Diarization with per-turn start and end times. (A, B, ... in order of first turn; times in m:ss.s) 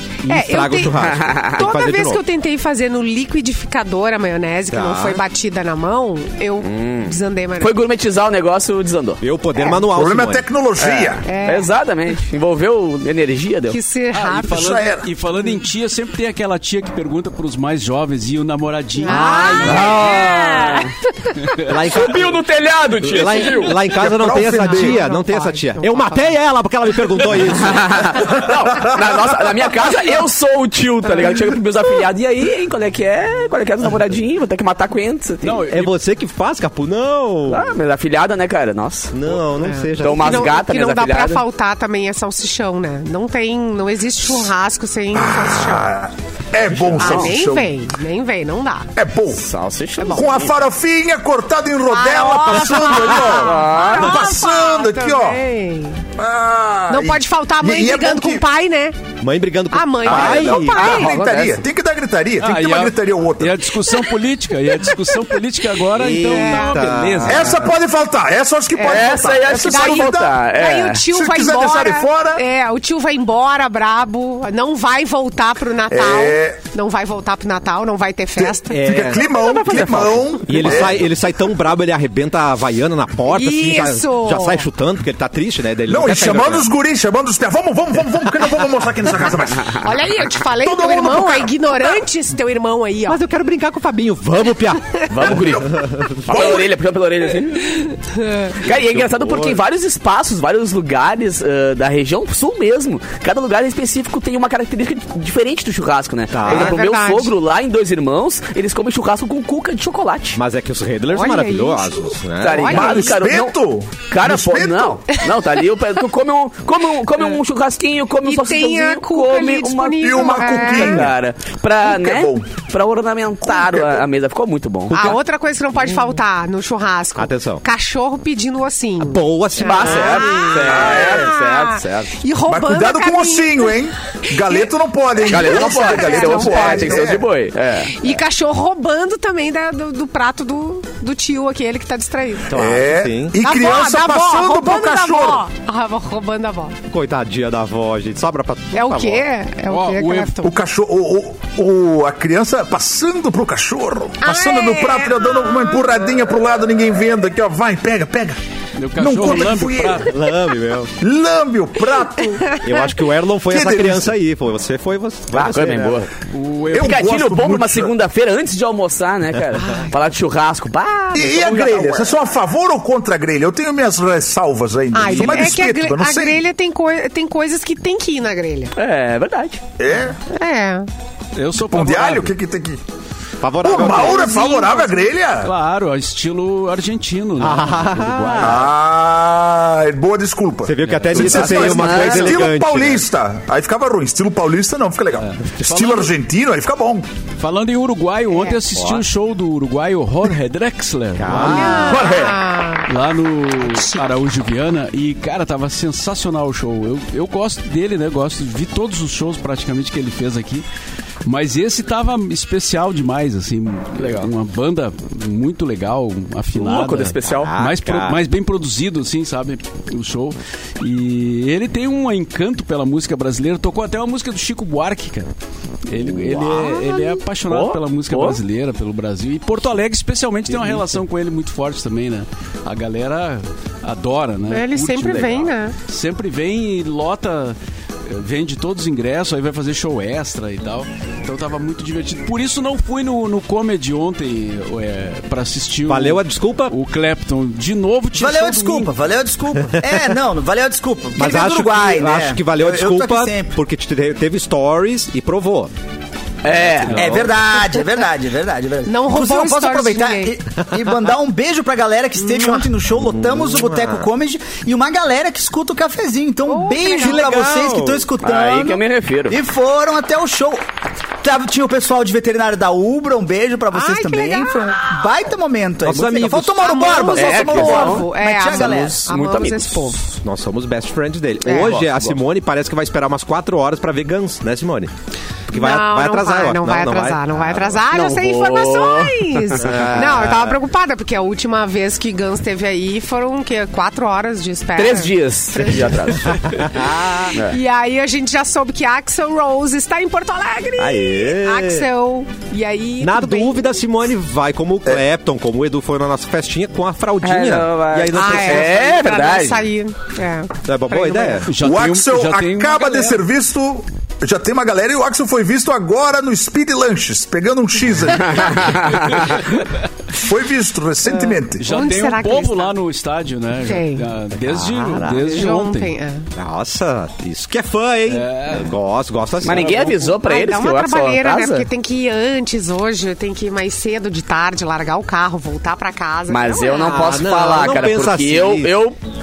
0:00.2-0:02.2 A
0:00.2-0:07.7 B
0:01.0-0:01.6 C
0:04.7-0:05.2 A
0:06.6-0:09.2 C
0:09.2-0:10.4 A
0:09.8-0:11.2 D
0:10.8-0:13.8 C
0:11.2-0:11.7 B
0:13.7-0:14.6 B
0:14.1-0:19.9 E
0:14.5-0:15.1 D
0:19.0-0:21.5 B
0:19.1-0:20.2 A
0:19.5-0:20.9 C
0:21.6-0:22.4 A
0:21.7-0:23.8 C
0:23.0-0:28.1 A
0:24.0-0:25.0 D
0:24.4-0:26.3 B
0:27.2-0:35.6 C
0:35.4-0:35.9 E
0:35.7-0:37.7 A
0:37.5-0:39.2 C
0:39.1-0:40.5 A
0:39.6-0:46.0 B
0:40.0-0:41.4 C
0:45.1-0:47.7 D
0:46.9-0:47.3 C
0:47.0-0:48.9 B
0:49.0-0:49.4 D
0:49.4-0:50.5 C
0:50.0-0:50.2 B
0:50.1-0:55.4 D
0:51.9-0:56.0 B
0:53.1-0:54.2 C
0:56.2-0:58.4 D
0:56.9-0:58.9 B
0:59.2-1:01.0 A
0:59.7-1:01.2 B
1:00.0-1:03.7 D
1:00.8-1:01.6 C
1:02.4-1:07.8 E
1:05.9-1:07.7 A
1:06.3-1:06.9 B
1:07.2-1:10.3 D
1:08.7-1:18.8 B
1:08.8-1:11.0 C
1:11.1-1:12.4 D
1:15.9-1:16.6 D
1:18.4-1:21.0 D
1:18.7-1:26.7 A
1:23.3-1:24.6 B
1:25.9-1:29.8 D
1:29.8-1:33.2 B
1:30.5-1:32.0 D
1:33.0-1:36.6 A
1:35.1-1:35.7 C
1:35.2-1:35.7 D
1:36.2-1:37.9 C
1:36.3-1:36.6 D
1:37.8-1:38.5 B
1:38.6-1:50.4 C
1:38.6-1:39.6 A
1:46.3-1:46.8 A
1:46.4-1:47.3 B
1:50.3-1:52.9 A
1:51.1-1:52.0 B
1:52.4-2:05.2 C
1:52.6-1:53.2 B
1:52.7-1:55.2 D
1:58.2-2:01.1 B
2:00.0-2:01.2 D
2:01.8-2:02.5 D
2:03.5-2:04.0 D
2:04.9-2:05.2 A
2:04.9-2:13.7 B
2:05.8-2:06.2 A
2:07.2-2:07.6 A
2:09.0-2:11.1 A
2:09.6-2:12.1 C
2:10.6-2:11.3 D
2:12.4-2:17.2 D
2:14.4-2:14.6 B
2:15.2-2:17.2 B
2:15.2-2:18.0 C
2:17.9-2:22.7 B
2:22.5-2:23.4 A
2:22.5-2:25.4 D
2:23.4-2:26.8 B
2:26.9-2:29.2 A
2:28.7-2:30.5 B
2:29.7-2:30.4 E
2:30.4-2:38.4 D
2:34.2-2:36.0 B
2:38.8-2:40.1 E
2:39.0-2:40.1 D
2:40.0-2:40.9 A
2:41.0-2:42.6 D
2:42.6-2:46.1 A
2:43.5-2:44.1 D
2:45.3-2:46.1 C
2:46.3-2:47.1 E
2:46.7-2:47.9 D
2:46.8-2:52.2 C
2:49.6-2:49.8 A
2:51.1-2:56.4 D
2:54.9-2:58.7 B
2:58.8-2:59.6 C
2:59.8-3:00.2 D
3:00.3-3:00.9 B
3:01.3-3:02.4 E
3:01.6-3:02.8 D
3:03.4-3:04.3 A
3:03.6-3:05.5 D
3:03.9-3:05.1 B
3:05.4-3:08.7 E
3:07.4-3:08.7 A
3:08.4-3:17.0 D
3:10.6-3:13.0 A
3:10.9-3:11.5 E
3:11.5-3:12.4 C
3:15.2-3:16.1 E
3:17.4-3:21.7 E
3:18.8-3:19.0 A
3:21.2-3:22.1 A
3:21.4-3:22.9 B
3:21.5-3:22.4 C
3:22.9-3:30.6 E
3:31.2-3:45.3 E
3:34.0-3:34.3 C
3:36.5-3:37.5 C
3:37.2-3:38.2 A
3:45.8-4:08.9 E
3:46.0-3:46.7 A
3:47.5-3:48.4 C
3:50.5-3:50.8 A
3:54.5-3:55.7 B
4:05.9-4:06.8 A
4:08.2-4:13.5 F
4:09.7-4:10.1 A
4:11.2-4:15.7 A
4:16.4-4:17.1 C
4:16.6-4:17.3 A
4:16.9-4:17.3 E
4:16.9-4:30.6 F
4:18.8-4:20.3 B
4:22.2-4:22.7 B
4:23.0-4:24.1 A
4:26.4-4:27.3 B
4:26.9-4:28.1 A
4:28.2-4:29.4 C
4:31.2-4:39.1 F
4:33.7-4:35.0 B
4:35.8-4:37.0 A
4:36.6-4:40.2 B
4:37.1-4:39.9 C
4:40.2-4:44.9 A
4:41.4-4:41.8 B
4:45.5-4:47.8 A
4:45.5-4:56.1 B
4:47.9-4:49.9 C
4:49.6-4:50.6 A
4:54.8-4:56.6 C
4:55.7-4:57.4 A
4:57.3-5:03.7 B
5:00.8-5:01.9 A
5:03.0-5:08.8 A
5:07.2-5:09.7 C
5:08.1-5:11.4 B
5:10.6-5:11.5 A
5:11.4-5:13.2 E
5:11.6-5:18.9 D
5:18.3-5:19.4 C
5:20.1-5:21.7 D
5:21.0-5:22.8 B
5:21.6-5:26.0 E
5:23.6-5:24.0 B
5:24.4-5:25.5 A
5:25.2-5:26.3 B
5:26.3-5:30.0 A
5:28.1-5:28.8 E
5:29.4-5:31.7 C
5:29.5-5:29.9 E
5:30.0-5:37.1 B
5:36.3-5:39.0 C
5:36.8-5:38.7 A